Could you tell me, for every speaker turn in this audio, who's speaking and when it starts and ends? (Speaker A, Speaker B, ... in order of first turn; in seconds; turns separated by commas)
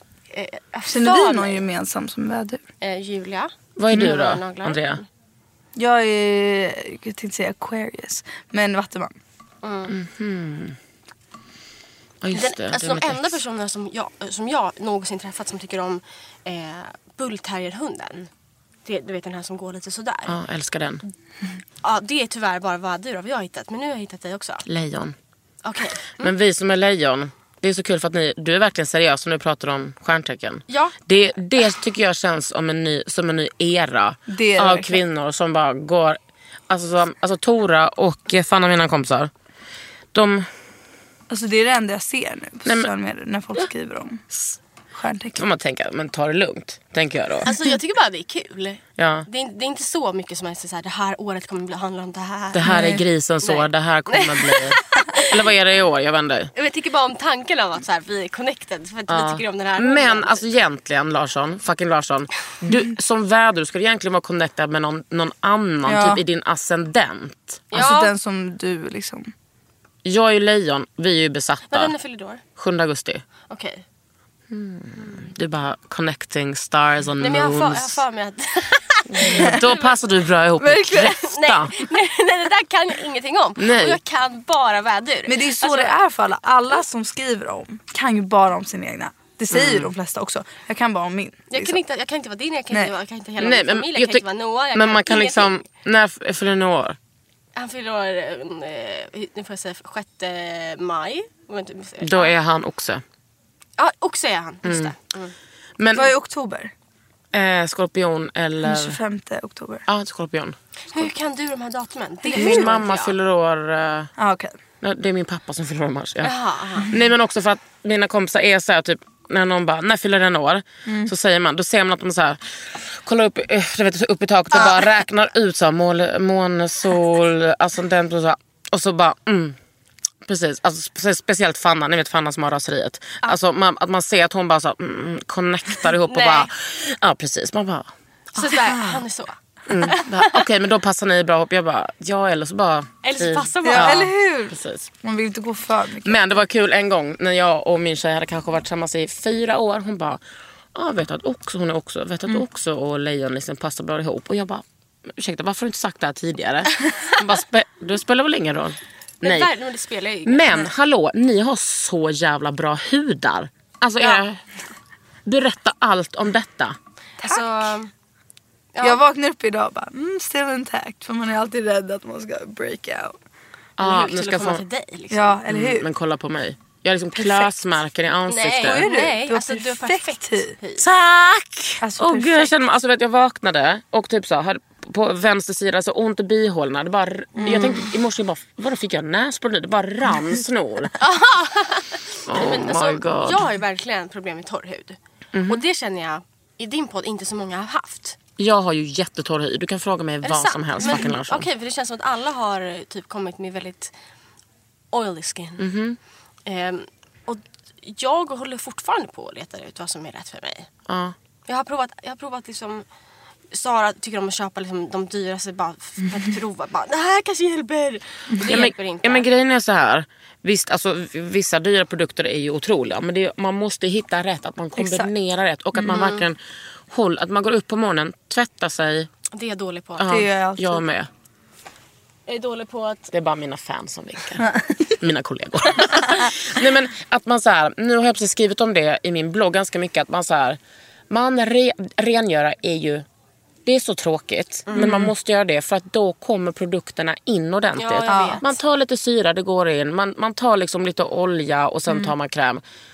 Speaker A: 0.3-1.6, Speaker B: 0.9-2.6, Speaker A: 2.8-5.0, Speaker C: 3.8-5.0, Speaker B: 5.8-9.2, Speaker A: 9.6-9.9, Speaker C: 9.9-10.8, Speaker C: 12.2-13.4, Speaker A: 12.3-18.3, Speaker A: 18.8-20.4, Speaker C: 20.3-21.0, Speaker A: 21.8-24.6, Speaker C: 24.6-25.1, Speaker A: 25.6-26.3, Speaker C: 26.2-36.2, Speaker A: 30.7-30.9, Speaker B: 34.3-35.0, Speaker C: 36.7-39.3, Speaker C: 40.1-40.5, Speaker B: 41.3-44.4, Speaker C: 42.6-42.9, Speaker B: 44.9-45.4, Speaker C: 45.4-47.5, Speaker A: 47.4-52.7, Speaker C: 49.0-49.3, Speaker C: 52.5-56.5, Speaker B: 52.6-53.0, Speaker A: 53.4-55.4, Speaker A: 56.5-60.4, Speaker C: 59.1-67.8, Speaker B: 65.8-66.2, Speaker A: 67.7-68.1, Speaker B: 67.7-69.3, Speaker C: 70.0-71.9, Speaker A: 71.7-72.4, Speaker C: 72.5-73.2, Speaker A: 73.5-73.8, Speaker C: 74.5-78.0, Speaker A: 77.2-79.9, Speaker C: 79.1-81.8, Speaker B: 79.2-79.6, Speaker B: 80.6-81.1, Speaker A: 80.9-86.0, Speaker C: 83.6-84.0, Speaker B: 85.3-91.8, Speaker C: 89.5-89.9, Speaker A: 91.5-95.6, Speaker C: 93.4-97.0, Speaker A: 97.5-102.3, Speaker C: 102.0-103.0, Speaker A: 103.8-105.3, Speaker C: 104.6-104.9, Speaker C: 105.8-106.1, Speaker B: 105.9-106.7, Speaker C: 107.3-109.0, Speaker B: 108.6-109.8, Speaker C: 109.9-110.5, Speaker A: 110.9-113.1, Speaker B: 112.2-112.7, Speaker C: 112.3-114.1, Speaker B: 114.2-114.6, Speaker C: 114.8-129.6, Speaker A: 116.2-116.9, Speaker B: 120.8-121.1, Speaker C: 130.2-138.8, Speaker A: 136.0-136.5, Speaker A: 138.3-140.4, Speaker C: 139.7-144.9, Speaker A: 143.0-144.1, Speaker B: 143.6-146.4, Speaker C: 146.0-150.2, Speaker C: 150.7-159.5, Speaker A: 159.2-160.7, Speaker C: 160.2-164.4, Speaker C: 165.2-166.7, Speaker A: 167.2-167.9, Speaker B: 167.2-167.5, Speaker A: 168.7-169.0, Speaker B: 168.8-173.2, Speaker C: 173.8-174.6, Speaker A: 173.8-175.4, Speaker B: 175.1-175.8, Speaker C: 175.5-178.9, Speaker B: 177.2-177.5, Speaker A: 178.3-180.8, Speaker B: 178.6-180.6, Speaker C: 180.8-191.0, Speaker B: 181.8-182.5, Speaker B: 187.4-187.8, Speaker A: 187.4-187.8, Speaker A: 191.0-198.2, Speaker C: 192.3-193.5, Speaker C: 195.3-195.6, Speaker C: 198.4-201.5, Speaker A: 200.2-203.9, Speaker A: 204.9-205.7, Speaker C: 205.6-206.0, Speaker A: 206.4-210.7, Speaker C: 210.9-211.1, Speaker A: 211.5-212.8, Speaker A: 213.5-219.3, Speaker C: 218.4-226.4, Speaker B: 224.8-225.1, Speaker A: 225.9-226.2, Speaker C: 226.9-229.1, Speaker A: 229.3-230.1, Speaker C: 230.0-231.1, Speaker B: 230.1-230.8, Speaker A: 232.3-233.1, Speaker C: 233.1-240.6, Speaker B: 234.4-234.8, Speaker C: 241.1-243.0, Speaker C: 243.7-252.6, Speaker A: 244.7-245.1, Speaker B: 244.8-245.0, Speaker A: 247.8-248.5, Speaker B: 248.1-248.4